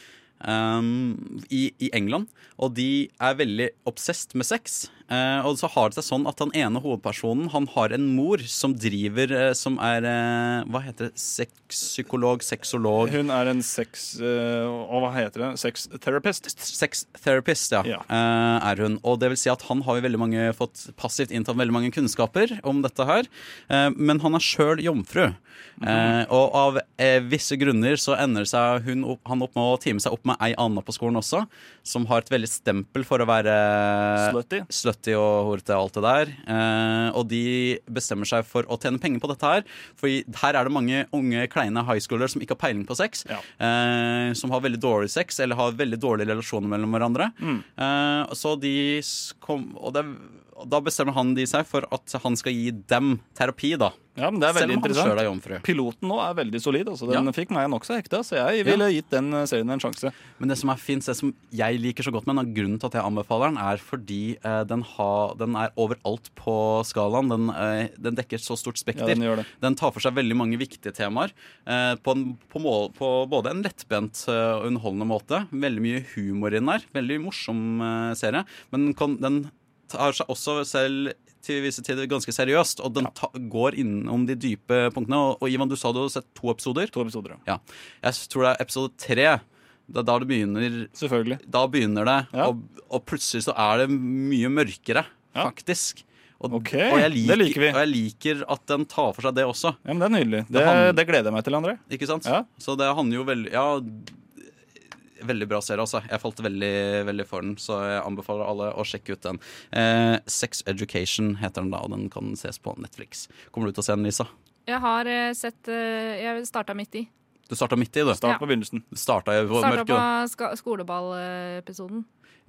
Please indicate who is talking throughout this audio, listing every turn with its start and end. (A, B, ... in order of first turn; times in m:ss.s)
0:00.4-0:13.2 A
0:13.0-0:16.5 B
0:16.5-0:54.0 A
0:25.8-0:26.2 B
0:34.2-0:34.7 B
0:47.4-0:47.6 B
0:54.2-1:00.1 B
0:54.5-0:55.6 A
1:00.4-1:26.9 A
1:08.9-1:09.5 B
1:26.9-1:27.4 B
1:27.4-1:39.8 A
1:30.9-1:31.4 B
1:36.5-1:37.8 B
1:39.8-1:42.5 B
1:40.5-1:41.0 A
1:41.9-1:44.2 A
1:45.2-1:54.3 A
1:54.7-1:57.1 C
1:57.5-1:58.2 A
1:58.1-1:58.8 B
1:58.9-2:00.0 A
1:59.6-2:02.0 C